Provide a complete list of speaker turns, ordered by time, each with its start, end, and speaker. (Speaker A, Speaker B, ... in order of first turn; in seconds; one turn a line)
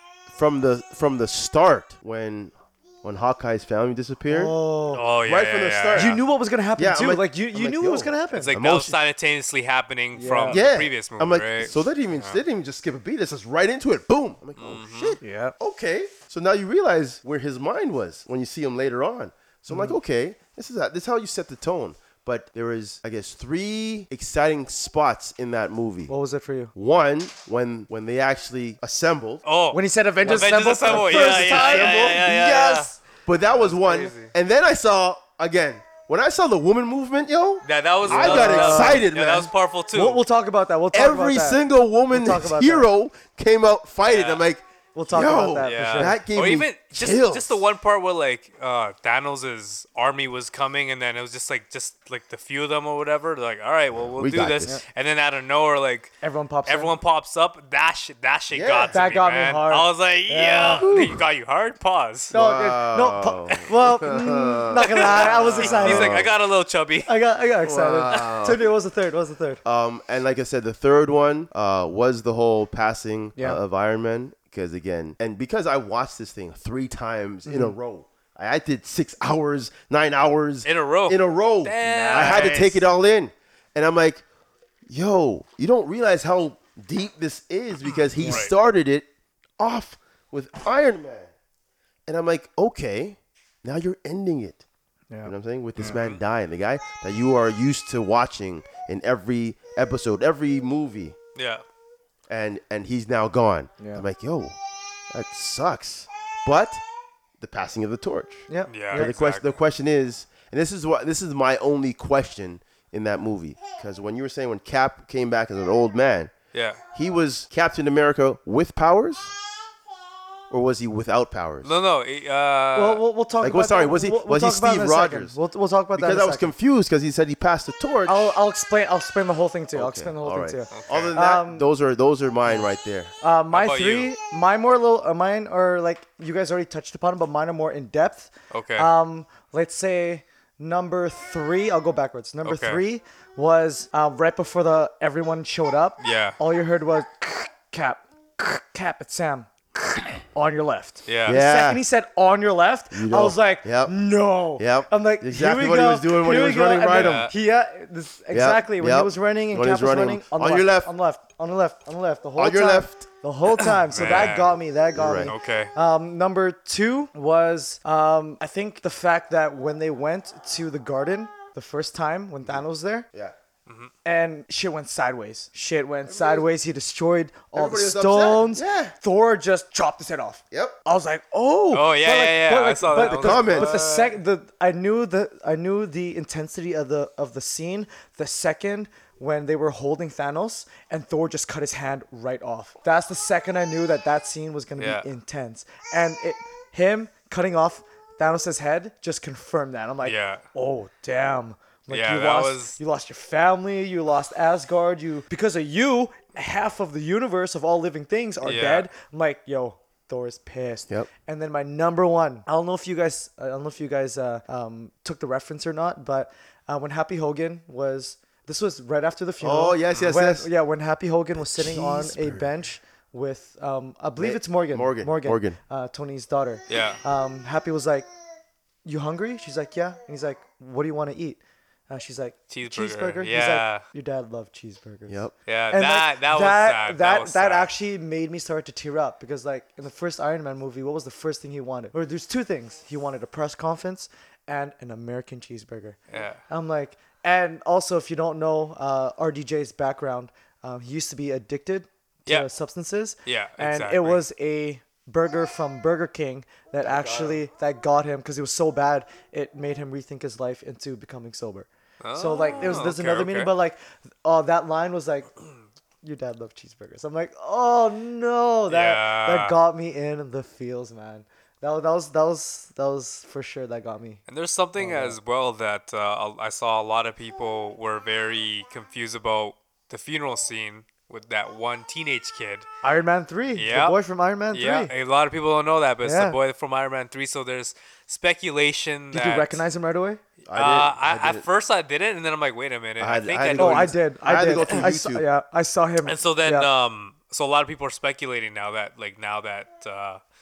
Speaker A: 0.3-4.5
Speaker B: 4.3-5.0
Speaker C: 4.9-6.2
Speaker A: 5.2-6.2
Speaker B: 5.9-8.5
Speaker A: 6.8-8.9
Speaker C: 8.3-12.4
Speaker B: 10.2-10.6
Speaker A: 10.5-26.1
Speaker C: 14.6-15.2
Speaker B: 15.2-15.5
Speaker B: 19.7-19.9
Speaker B: 26.1-26.7
Speaker A: 26.7-29.4
Speaker C: 29.4-32.9
Speaker B: 29.7-33.0
Speaker A: 30.3-32.3
Speaker A: 33.2-39.5
Speaker C: 33.5-34.3
Speaker C: 37.6-40.2
Speaker B: 38.1-39.0
Speaker B: 39.9-42.9
Speaker A: 40.9-47.6
Speaker C: 44.0-44.4
Speaker B: 44.9-46.2
Speaker C: 45.6-56.1
Speaker A: 54.1-54.7
Speaker B: 56.2-56.9
Speaker C: 56.7-62.3
Speaker A: 58.5-59.0
Speaker B: 58.9-60.9
Speaker A: 60.8-61.2
Speaker A: 62.3-66.3
Speaker B: 62.3-66.2
Speaker C: 64.9-67.1
Speaker B: 67.0-69.6
Speaker A: 67.6-68.6
Speaker A: 69.6-84.2
Speaker B: 77.5-77.7
Speaker C: 80.6-82.8
Speaker B: 81.8-82.6
Speaker A: 84.9-89.1
Speaker C: 88.2-88.5
Speaker A: 89.6-91.3
Speaker A: 92.1-94.6
Speaker B: 95.1-96.0
Speaker A: 95.2-101.2
Speaker C: 95.8-96.2
Speaker C: 101.3-101.6
Speaker A: 102.3-104.5
Speaker B: 103.8-104.0
Speaker A: 105.1-106.8
Speaker A: 107.4-116.3
Speaker B: 108.5-109.1
Speaker C: 108.7-109.5
Speaker C: 116.5-116.8
Speaker A: 116.9-119.3
Speaker A: 120.5-121.8
Speaker C: 121.6-123.0
Speaker B: 122.7-126.5
Speaker A: 123.4-125.4
Speaker A: 125.9-128.4
Speaker B: 128.1-131.7
Speaker A: 129.7-133.1
Speaker C: 130.7-131.1
Speaker B: 133.2-173.1
Speaker C: 133.5-134.1
Speaker C: 138.5-138.9
Speaker C: 142.4-142.8
Speaker C: 146.0-146.4
Speaker C: 151.1-151.4
Speaker A: 151.2-151.8
Speaker A: 152.9-153.9
Speaker A: 154.6-157.3
Speaker C: 156.9-157.3
Speaker A: 158.3-160.9
Speaker A: 162.4-163.1
Speaker C: 163.6-164.6
Speaker A: 164.9-165.3
Speaker C: 165.2-165.7
Speaker C: 173.7-173.9
Speaker B: 174.0-228.1
Speaker A: 176.0-176.4
Speaker A: 177.5-178.9
Speaker A: 180.5-180.8
Speaker C: 181.7-184.2
Speaker A: 183.0-183.8
Speaker C: 194.8-195.1
Speaker C: 200.0-200.4
Speaker C: 201.9-202.8
Speaker C: 208.4-208.9
Speaker A: 219.4-220.5
Speaker A: 221.4-222.5
Speaker A: 224.2-225.6
Speaker C: 226.7-227.0
Speaker B: 228.8-246.0
Speaker C: 232.5-233.8
Speaker A: 235.1-235.3
Speaker C: 235.4-237.7
Speaker C: 246.1-246.4
Speaker B: 246.5-265.3
Speaker C: 253.2-254.2
Speaker A: 256.8-257.4
Speaker C: 262.0-263.5
Speaker B: 266.0-274.2
Speaker C: 268.7-269.6
Speaker C: 274.3-282.7
Speaker B: 274.8-275.1
Speaker B: 282.8-284.9
Speaker C: 283.6-284.0
Speaker C: 284.5-289.6
Speaker B: 286.0-286.4
Speaker B: 289.1-290.2
Speaker A: 290.4-291.4
Speaker C: 290.5-293.9
Speaker A: 293.0-295.2
Speaker B: 293.6-296.7
Speaker C: 296.0-300.2